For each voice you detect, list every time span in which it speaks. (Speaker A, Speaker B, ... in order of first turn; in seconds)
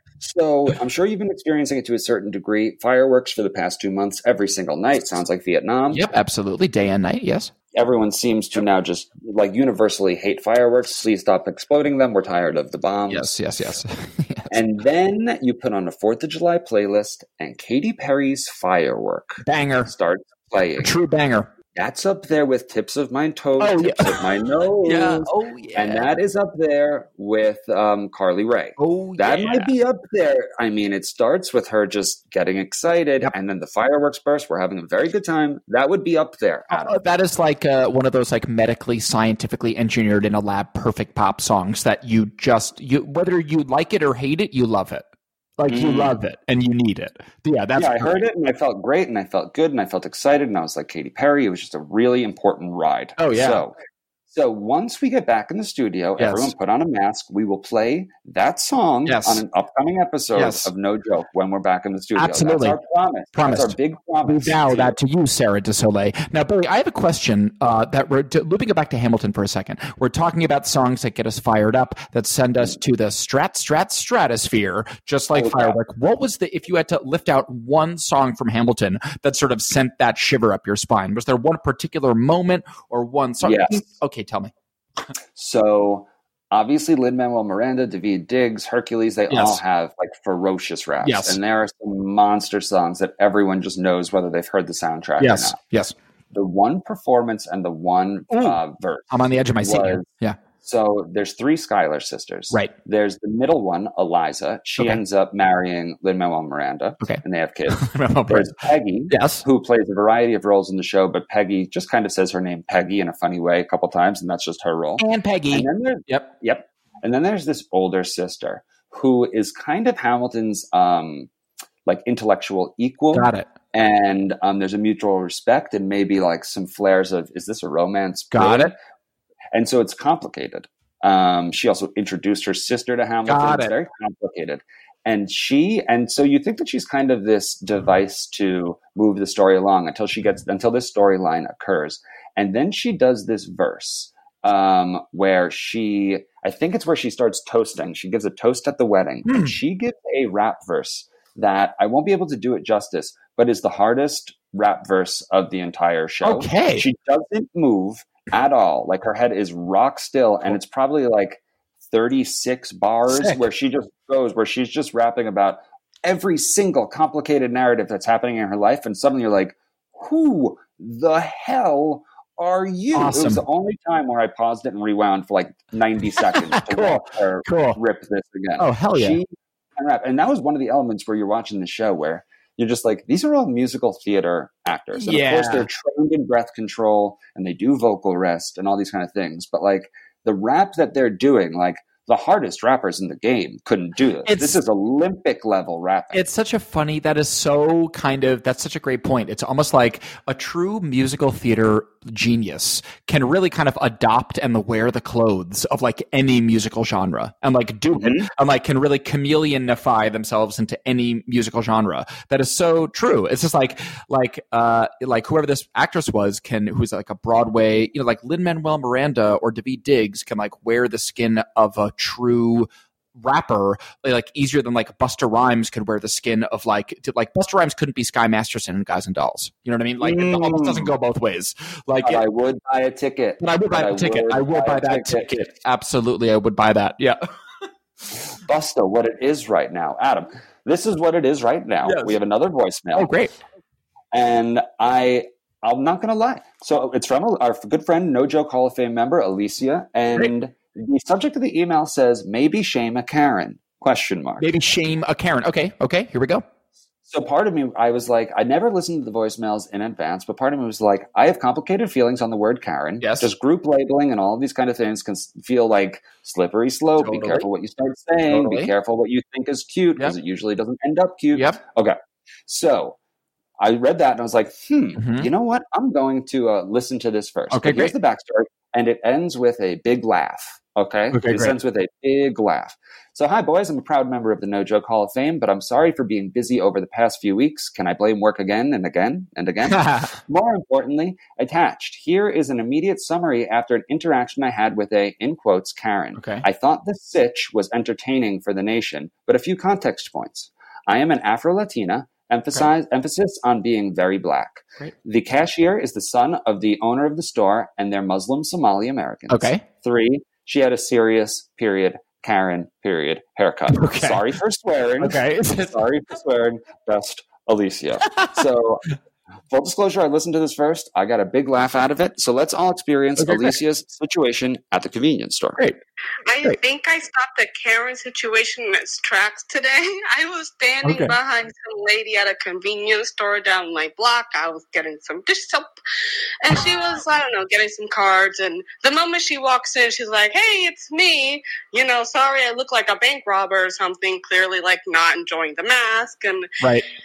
Speaker A: 0.2-6.0, 7.7-13.4, 14.5-20.9, 21.7-37.0, 45.7-46.2, 47.7-53.7, 54.3-65.0, 75.3-75.8, 83.4-83.8, 85.3-95.6, 96.3-100.1, 100.6-121.3, 121.8-128.8, 129.5-196.2, 208.0-208.3, 230.0-230.9, 232.0-235.5, 238.1-243.1, 244.1-254.5, 257.1-273.0, 273.6-318.9, 319.5-325.6
Speaker B: 5.9-7.5, 13.1-14.6, 19.4-19.9, 20.8-21.5, 23.6-24.2, 24.8-26.1, 28.8-29.7, 36.7-45.0, 45.6-48.2, 53.2-53.6, 56.2-56.5, 59.0-59.4, 60.4-60.7, 62.1-62.8, 63.3-84.5, 89.3-89.6, 91.0-91.4, 95.2-95.9, 98.3-98.6, 99.1-100.4, 107.0-108.5, 109.1-109.4, 115.0-116.3, 123.1-123.5, 128.3-128.7, 133.3-133.7, 149.2-149.6, 156.2-156.8, 163.1-163.4, 172.9-173.4, 176.3-177.8, 178.6-179.2, 184.9-185.7, 194.2-194.6, 196.1-232.2, 233.4-237.2, 241.8-242.2, 242.9-243.3, 254.4-256.4, 263.0-263.3, 267.0-267.4, 268.3-268.7, 271.3-271.6, 275.0-275.3, 277.5-277.9, 281.1-281.5, 289.7-290.1, 296.1-296.4, 309.3-309.6, 313.7-314.2, 315.0-315.8, 318.1-318.4, 323.2-323.6, 330.8-331.1, 346.6-346.9
Speaker C: 326.2-335.7, 336.4-346.5